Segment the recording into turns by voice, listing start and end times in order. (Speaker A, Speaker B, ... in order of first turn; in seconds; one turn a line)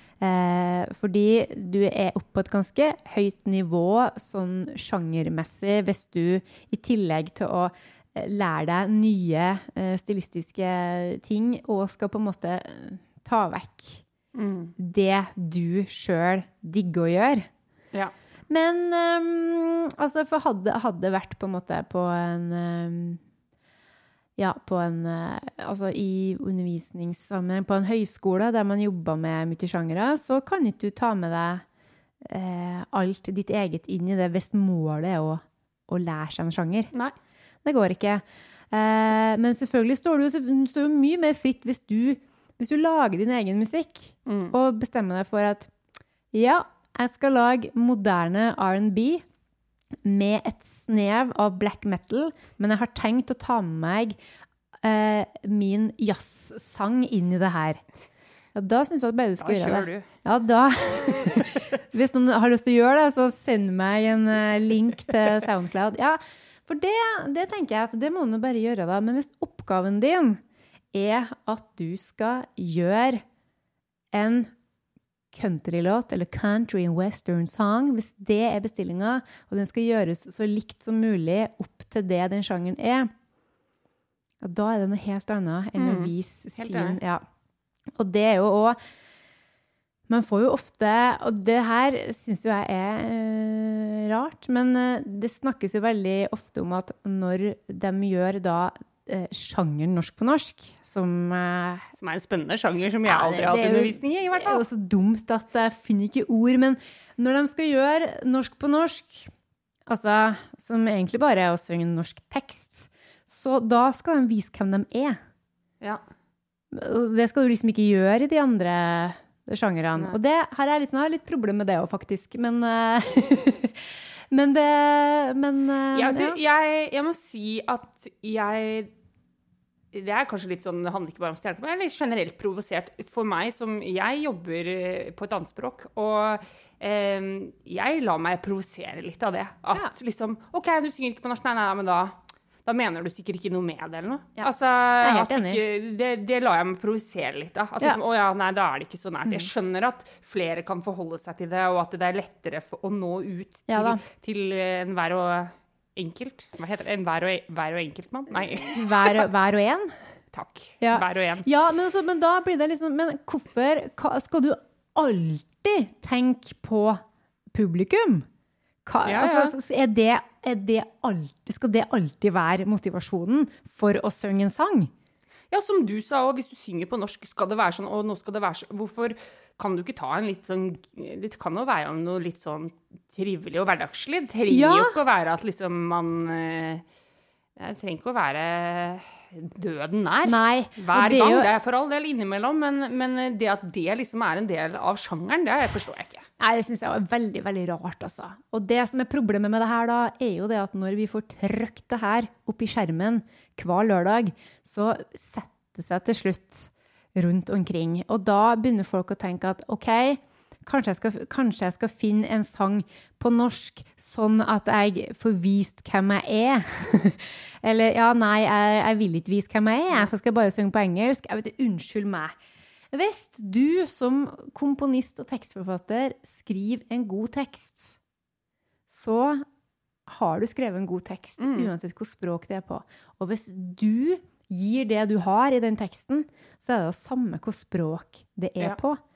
Speaker A: 0.2-14.0
Speaker B: 14.3-14.7
Speaker A: 14.8-17.5
Speaker A: 18.5-23.2
Speaker A: 24.4-31.6
Speaker A: 32.2-36.9
Speaker A: 37.6-45.7
Speaker B: 44.2-44.5
Speaker A: 46.3-49.2
Speaker A: 50.0-54.2
Speaker A: 54.8-57.8
Speaker A: 58.5-70.4
Speaker B: 59.4-60.1
Speaker A: 70.9-73.2
Speaker A: 74.1-74.5
Speaker A: 75.3-83.1
Speaker A: 84.4-87.2
Speaker B: 85.8-87.0
Speaker A: 88.0-88.8
Speaker A: 90.1-101.9
Speaker B: 102.0-104.6
Speaker A: 103.0-109.3
Speaker A: 109.9-115.2
Speaker A: 116.7-126.4
Speaker B: 125.9-128.9
Speaker B: 129.9-159.2
Speaker A: 144.4-145.6
Speaker A: 153.7-154.0
Speaker A: 158.7-159.9
Speaker B: 160.3-161.4
Speaker A: 160.8-167.0
Speaker A: 167.5-168.3
Speaker A: 168.8-174.9
Speaker B: 169.0-169.5
Speaker B: 175.5-186.8
Speaker A: 184.5-185.0
Speaker B: 187.6-196.2
Speaker A: 190.2-191.5
Speaker A: 196.4-222.3
Speaker A: 222.9-227.9
Speaker A: 228.9-229.4
Speaker A: 230.1-239.0
Speaker B: 231.4-231.7